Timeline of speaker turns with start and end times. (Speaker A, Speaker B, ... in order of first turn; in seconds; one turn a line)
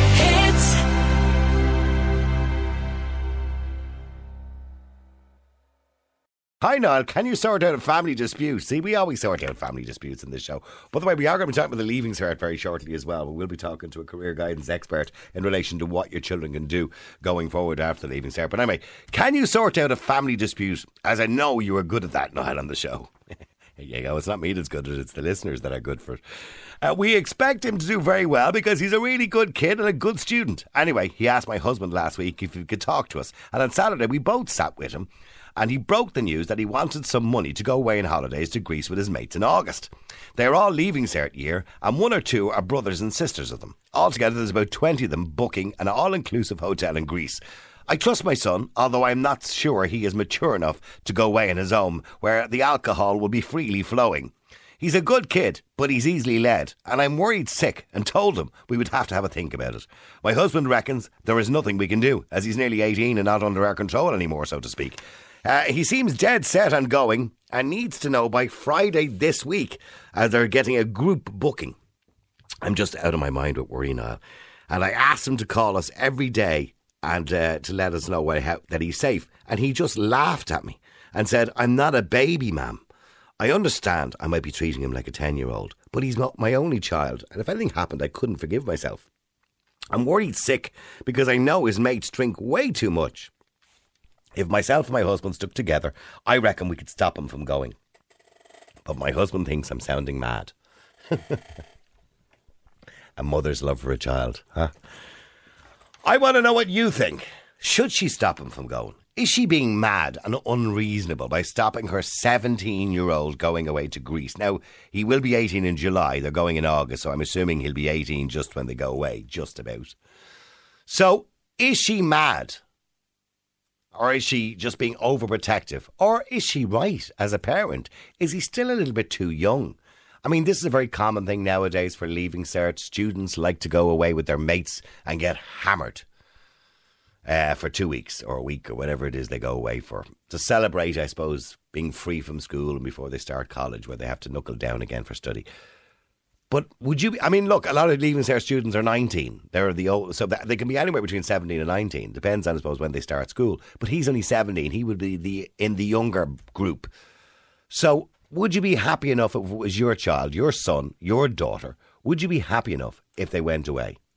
Speaker A: 6.6-23.1
Speaker A: 23.8-26.2
Speaker A: 26.8-71.8
Speaker A: 72.6-82.8
Speaker A: 83.4-89.1
Speaker A: 89.9-93.3
Speaker A: 94.4-97.8
Speaker A: 98.8-100.5
Speaker A: 101.1-101.4
Speaker A: 103.2-104.7
Speaker A: 106.0-120.0
Speaker A: 120.9-122.6
Speaker A: 123.9-136.1
Speaker A: 137.3-145.5
Speaker A: 146.5-156.9
Speaker A: 157.7-164.0